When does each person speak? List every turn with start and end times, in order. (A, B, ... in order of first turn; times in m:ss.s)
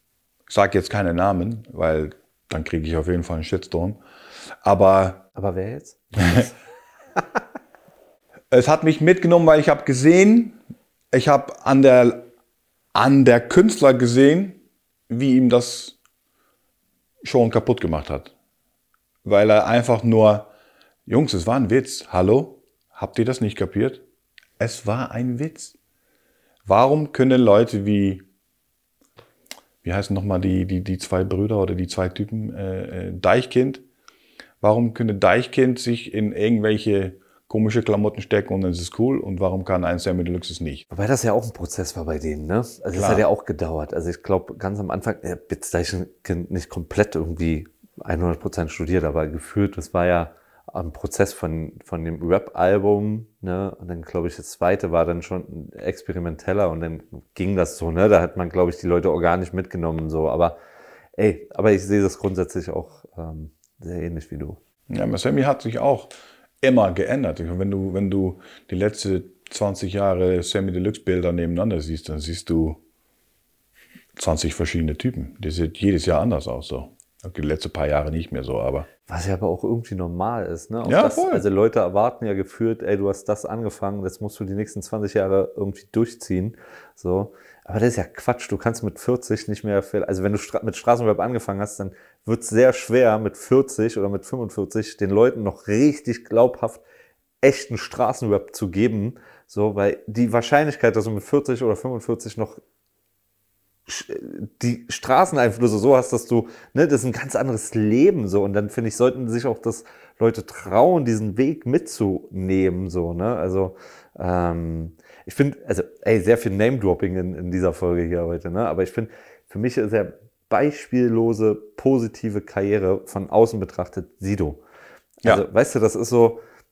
0:00.5-0:04.0 A
0:04.6-0:05.2 A
0:05.4-0:06.5 B
0:08.5-0:10.6 A
0:11.1-0:12.3 A
0:12.9-0:16.0 A
0:17.2-0:18.3 A
0:19.2-0:20.5 A
0:21.1-0:24.0 A
0:24.6-0:25.8 A
0:26.7-0:28.2 A
0:29.8-0:33.8 A
0:34.6-0:40.8 A
0:40.9-1:00.6 B
0:42.9-0:43.2 A
1:01.2-1:04.6 B
1:04.9-1:06.1 A
1:06.6-1:12.8 A
1:14.2-1:18.9 A
1:19.1-1:36.8 B
1:20.8-1:21.4 A
1:37.4-1:42.6 B
1:43.9-2:04.6 B
2:05.2-2:06.4 B